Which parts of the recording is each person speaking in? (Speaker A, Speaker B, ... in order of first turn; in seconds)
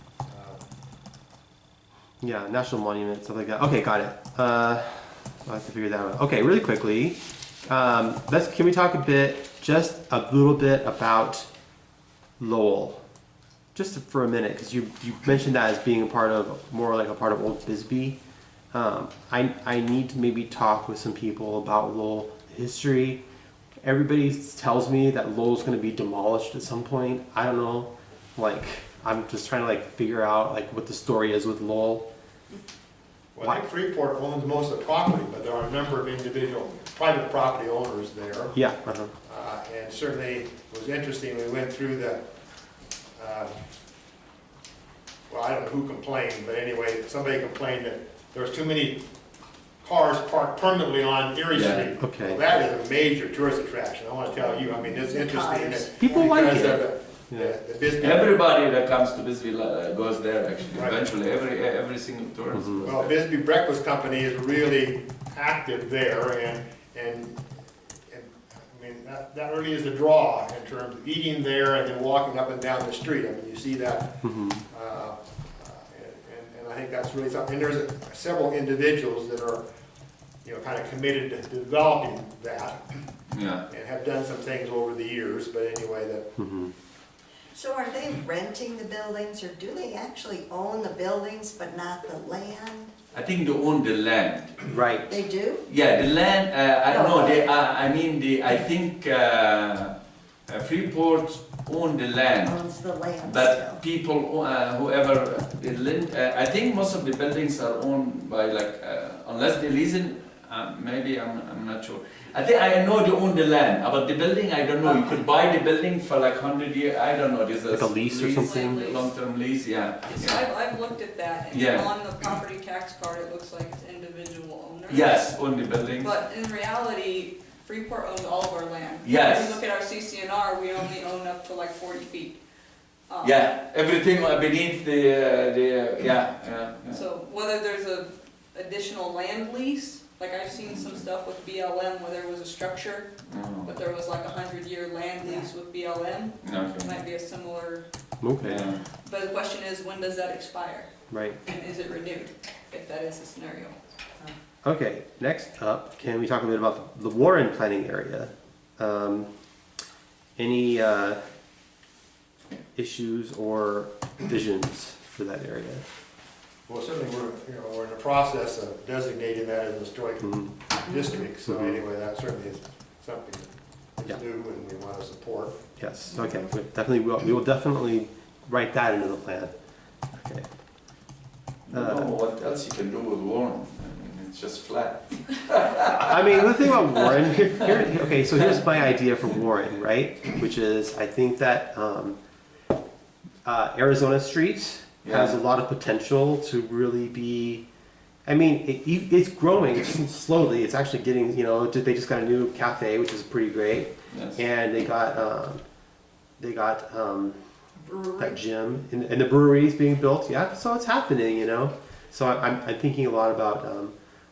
Speaker A: 0.2-0.6, 33.4-38.5, 39.3-42.2, 43.2-43.5, 45.3-49.1, 49.8-58.4, 60.8-61.0, 62.9-67.4, 68.1-79.6, 80.4-83.0, 83.7-86.3, 166.7-175.6
Speaker B: 2.2-11.5, 12.4-13.0, 13.8-18.2, 18.7-23.2, 23.8-32.1, 38.5-39.1, 52.0-52.5, 56.0-57.5, 62.5-62.9, 74.2-74.6, 86.4-86.7, 94.7-95.1, 117.7-119.0, 148.2-148.7, 151.1-151.4, 154.6-159.3, 160.4-161.2, 162.7-165.9, 170.2-170.5, 171.5-171.8, 175.8-179.5, 180.1-180.5, 181.7-182.1, 185.8-192.2, 193.4-197.7, 198.3-205.6, 206.4-207.4, 208.2-214.0
Speaker C: 51.5-51.9, 58.0-63.1, 83.3-83.6, 93.1-94.6, 95.7-100.0, 100.5-102.6, 103.2-120.4, 121.5-121.9, 124.9-126.1, 129.0-129.6, 133.2-137.0, 143.3-143.7, 146.4-146.9, 148.4-148.8, 181.7-186.5, 195.0-195.4, 204.1-204.4
Speaker D: 54.4-56.8, 87.5-92.9, 95.1-95.6, 96.9-97.5, 102.4-103.8
Speaker E: 118.3-119.1, 120.1-125.3, 126.0-132.4, 133.1-133.4, 136.9-147.9, 149.1-150.9, 151.4-153.8, 207.9-208.4